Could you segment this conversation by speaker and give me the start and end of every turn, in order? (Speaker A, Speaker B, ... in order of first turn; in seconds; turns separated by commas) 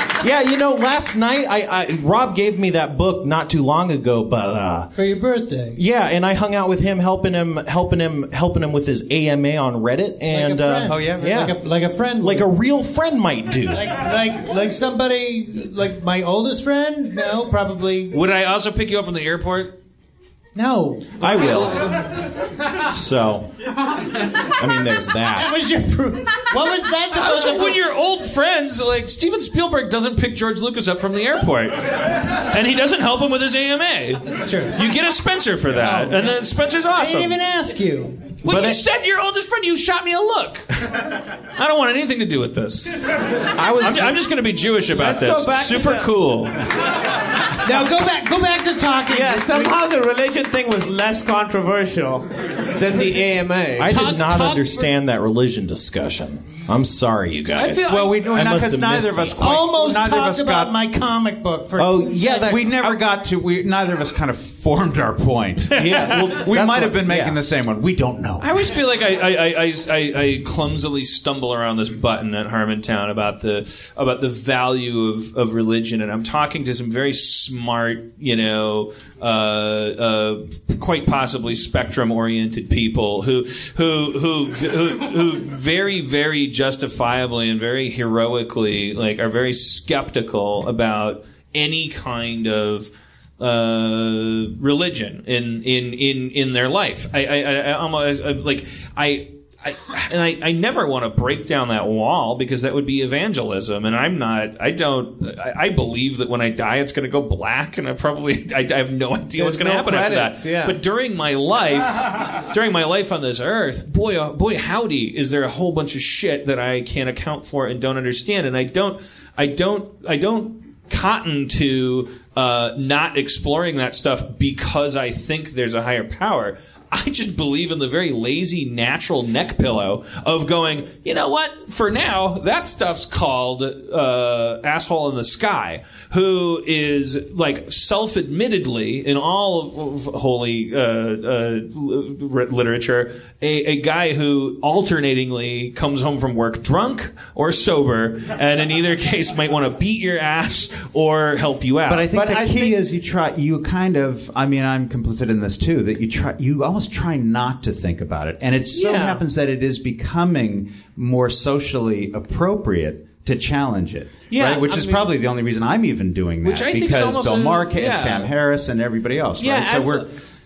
Speaker A: 0.2-4.9, Speaker B: 4.9-5.8, Speaker A: 5.7-11.6, Speaker B: 10.3-12.5, Speaker C: 10.9-11.5, Speaker A: 12.2-13.9, Speaker B: 13.7-18.1, Speaker D: 18.1-19.7, Speaker B: 20.5-21.2, Speaker A: 21.2-22.2, Speaker A: 22.7-23.9, Speaker A: 24.4-25.5, Speaker B: 25.3-27.8, Speaker D: 27.1-37.4, Speaker B: 34.4-34.8, Speaker B: 35.7-36.4, Speaker B: 36.9-38.4, Speaker D: 38.4-41.0, Speaker D: 41.5-43.0, Speaker A: 43.5-44.1, Speaker D: 43.8-46.6, Speaker E: 44.9-46.1, Speaker B: 47.6-49.8, Speaker E: 49.1-54.6, Speaker A: 53.8-59.6, Speaker D: 57.5-58.2, Speaker C: 57.8-60.8, Speaker B: 59.4-62.6, Speaker A: 61.8-63.0, Speaker C: 62.4-68.5, Speaker A: 65.7-67.4, Speaker D: 68.4-152.2, Speaker E: 109.3-110.8, Speaker C: 151.9-170.1, Speaker E: 152.2-152.7, Speaker E: 158.7-159.2, Speaker E: 164.3-165.1, Speaker D: 166.4-168.3, Speaker E: 169.4-170.1